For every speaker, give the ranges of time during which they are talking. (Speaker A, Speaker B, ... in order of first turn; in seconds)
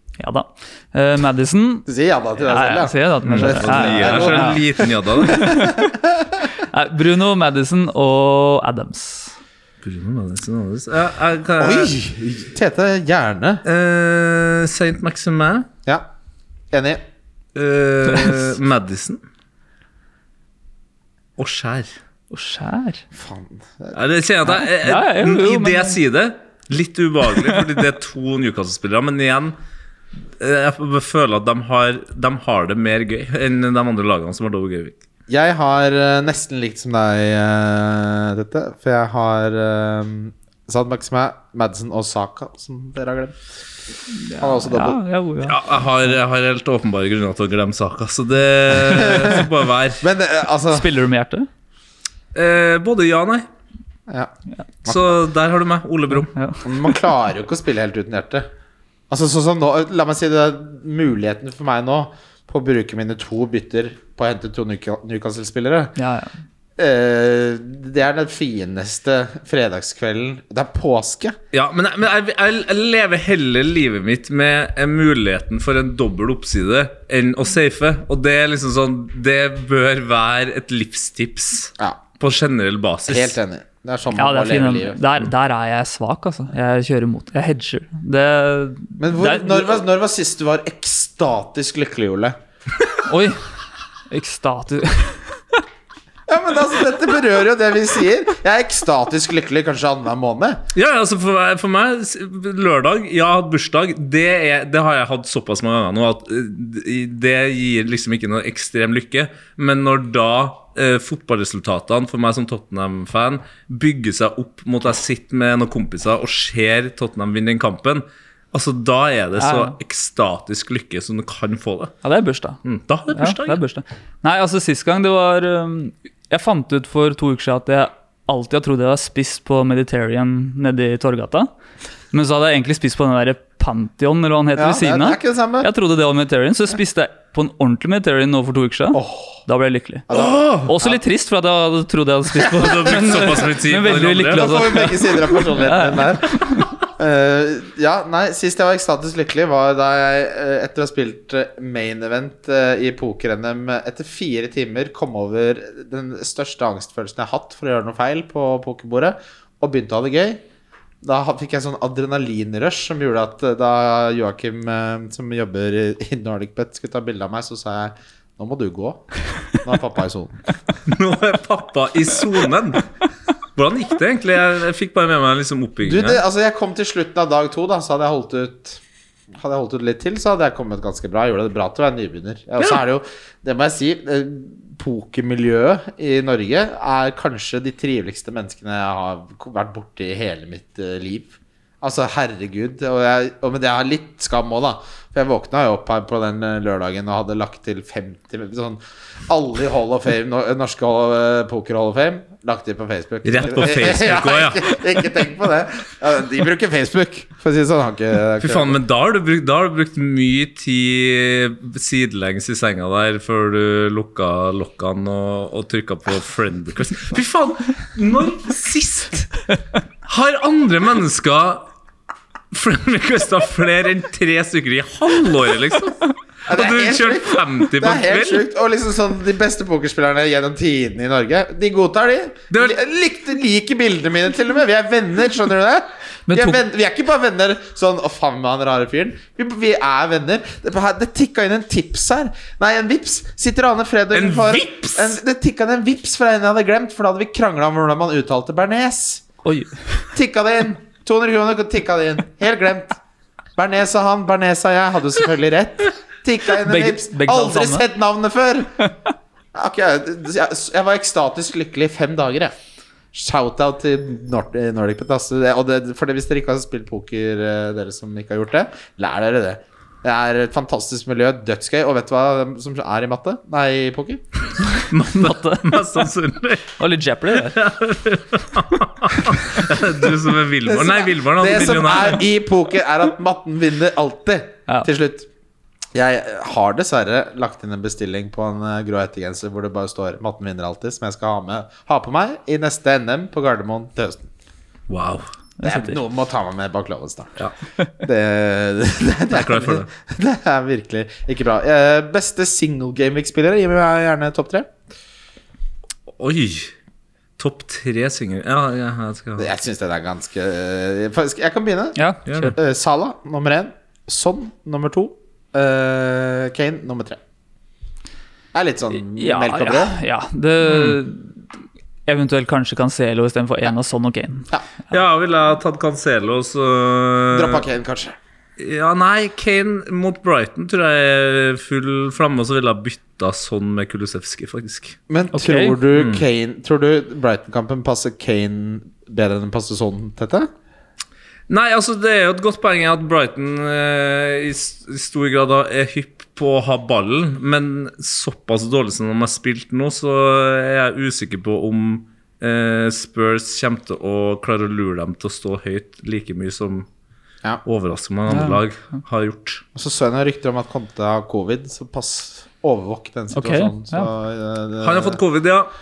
Speaker A: 0.2-1.9, 2.4-6.0, 6.5-9.3, 18.1-18.4, 22.3-23.0, 24.4-26.0, 44.1-45.7, 50.7-51.5, 56.3-56.9, 66.0-66.3, 84.1-89.8, 93.0-93.4, 94.1-95.6, 119.4-119.7, 122.0-131.5, 132.1-140.1, 140.6-146.7, 236.3-236.6, 249.4-250.0, 256.6-257.9, 274.8-276.0, 276.8-277.6, 295.6-296.0, 311.9-312.6, 318.9-321.4, 322.1-324.5, 335.3-335.8, 358.3-358.6, 363.3-364.1
Speaker B: 1.9-6.3, 11.6-13.6, 16.7-17.0, 23.1-24.0, 35.3-43.5, 44.4-45.0, 48.8-49.5, 50.0-50.9, 54.9-55.1, 56.6-58.5, 59.1-65.9, 66.8-71.3, 83.1-85.0, 89.0-92.3, 96.3-100.6, 134.6-135.7, 138.9-139.4, 140.1-141.0, 142.6-143.4, 144.3-160.4, 161.0-170.4, 175.8-178.8, 179.3-208.8, 226.5-249.2, 250.1-253.0, 253.6-258.7, 259.5-262.5, 263.1-274.2, 280.6-285.3, 285.9-294.3, 295.6-297.4, 298.0-304.7, 309.4-312.0, 312.5-317.2, 318.5-319.9, 327.3-328.1, 335.1-340.5, 359.7-365.2
Speaker C: 3.2-5.6, 9.8-11.9, 13.6-15.7, 17.5-19.2, 21.4-21.9, 23.9-29.5, 30.4-35.0, 45.4-50.0, 52.3-53.5, 54.9-56.3, 71.5-83.3, 100.7-121.9, 122.6-123.6, 140.1-140.7, 142.5-144.7, 170.9-172.8, 173.6-176.2, 203.2-204.8, 208.4-219.3, 220.1-221.7, 222.5-228.4, 232.5-232.8, 244.1-245.2, 274.8-276.7, 277.4-282.2, 294.9-295.2, 299.3-299.9, 306.1-306.7, 307.4-309.5, 312.3-312.5, 320.6-321.0, 324.9-327.6, 328.6-335.0, 335.9-336.2, 341.5-356.9, 357.6-359.6, 364.8-365.7